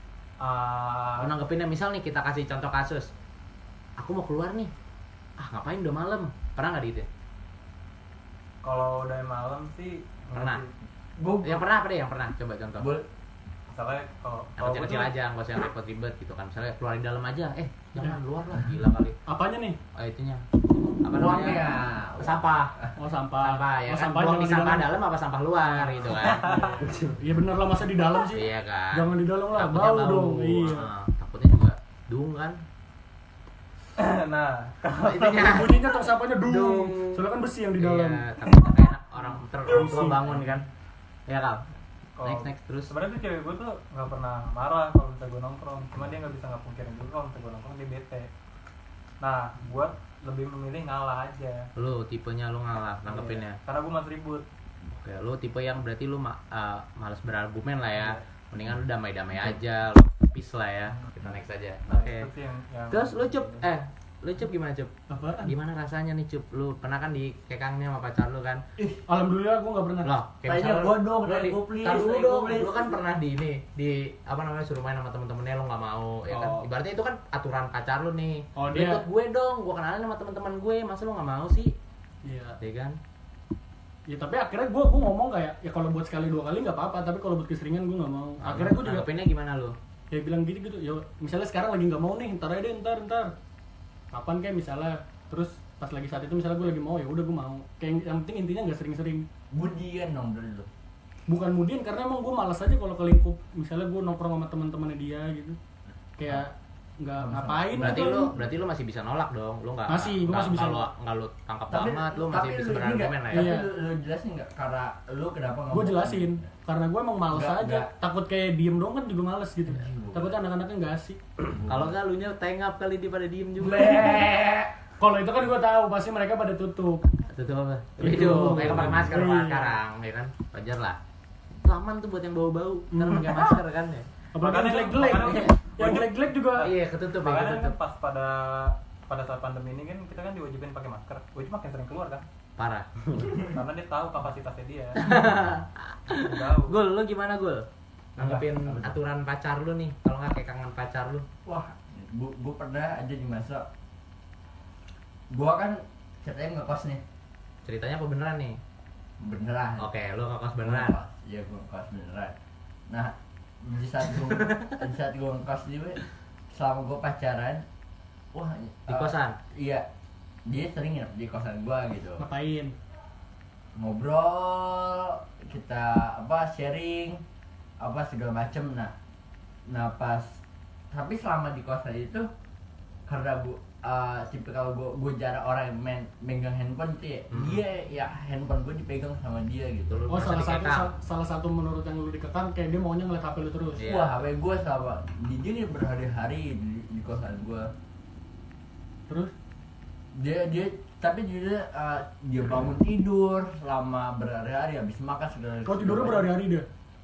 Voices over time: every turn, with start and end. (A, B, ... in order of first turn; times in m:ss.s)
0:00.4-0:01.3 A
0:01.2-0:03.1 B
0:04.0-0:04.7 B
0:05.4-0:07.1 B
0:08.6-0:10.7 A
0:10.3-0:10.6 B
0:11.2-0:11.6 C
0:11.4-0:12.9 B
0:12.8-0:13.0 C
0:13.7-0:15.1 A
0:14.6-0:19.2 B
0:19.3-0:19.8 D
0:19.9-0:20.4 B
0:21.0-0:21.7 B
0:21.1-0:22.9 C
0:22.2-0:22.7 B
0:23.0-0:24.9 D
0:23.4-0:26.4 B
0:25.6-0:30.9 D
0:26.2-0:26.9 A
0:28.3-0:32.6 B
0:34.0-0:35.7 A
0:35.0-0:35.8 B
0:35.4-0:38.2 D
0:36.4-0:37.2 B
0:37.8-0:40.6 B
0:39.7-0:40.3 D
0:41.3-0:41.7 B
0:42.2-0:48.3 A
0:42.2-0:42.9 B
0:49.2-0:51.7 A
0:51.8-0:53.6 B
0:53.1-0:54.4 A
0:54.9-1:02.3 B
1:01.9-1:03.7 A
1:02.9-1:04.9 B
1:05.1-1:05.5 D
1:05.4-1:08.6 B
1:08.8-1:09.0 C
1:09.1-1:10.1 D
1:10.0-1:21.7 B
1:10.4-1:13.0 C
1:18.6-1:19.0 D
1:22.2-1:22.6 D
1:22.6-1:23.0 B
1:24.1-1:29.1 D
1:28.4-1:29.7 B
1:30.1-1:33.3 D
1:34.1-1:39.2 D
1:39.5-1:40.7 C
1:41.3-1:45.6 D
1:46.2-1:48.3 D
1:47.2-1:48.5 C
1:47.8-1:53.6 B
1:49.9-1:50.9 D
1:51.7-1:56.4 C
1:53.3-1:53.7 D
1:55.7-2:01.2 D
1:57.3-1:57.9 C
1:59.7-2:00.3 C
2:01.4-2:01.9 C
2:01.7-2:04.1 B
2:03.6-2:04.7 C
2:05.0-2:07.1 D
2:07.3-2:11.0 B
2:08.0-2:09.8 D
2:11.6-2:14.1 B
2:12.9-2:13.6 D
2:14.3-2:16.7 D
2:14.4-2:22.2 A
2:15.2-2:15.5 B
2:16.6-2:17.8 B
2:22.6-2:22.9 B
2:23.4-2:25.0 A
2:25.0-2:31.2 B
2:26.1-2:26.8 A
2:28.2-2:28.9 C
2:31.4-2:33.7 C
2:35.3-2:37.0 C
2:37.6-2:38.6 B
2:39.2-2:39.9 C
2:39.8-2:41.0 B
2:40.6-2:42.3 C
2:42.9-2:46.0 C
2:44.3-2:44.8 B
2:46.5-2:47.6 C
2:48.3-2:49.8 C
2:48.9-2:49.4 B
2:50.4-2:52.3 C
2:52.2-2:52.7 D
2:53.8-2:57.2 C
2:57.8-2:58.9 C
2:59.7-3:00.4 C
3:00.9-3:02.3 C
3:03.1-3:10.0 C
3:07.3-3:07.6 B
3:09.9-3:10.9 B
3:10.1-3:13.8 D
3:13.8-3:14.2 B
3:13.8-3:17.7 C
3:20.1-3:26.3 C
3:25.6-3:26.7 D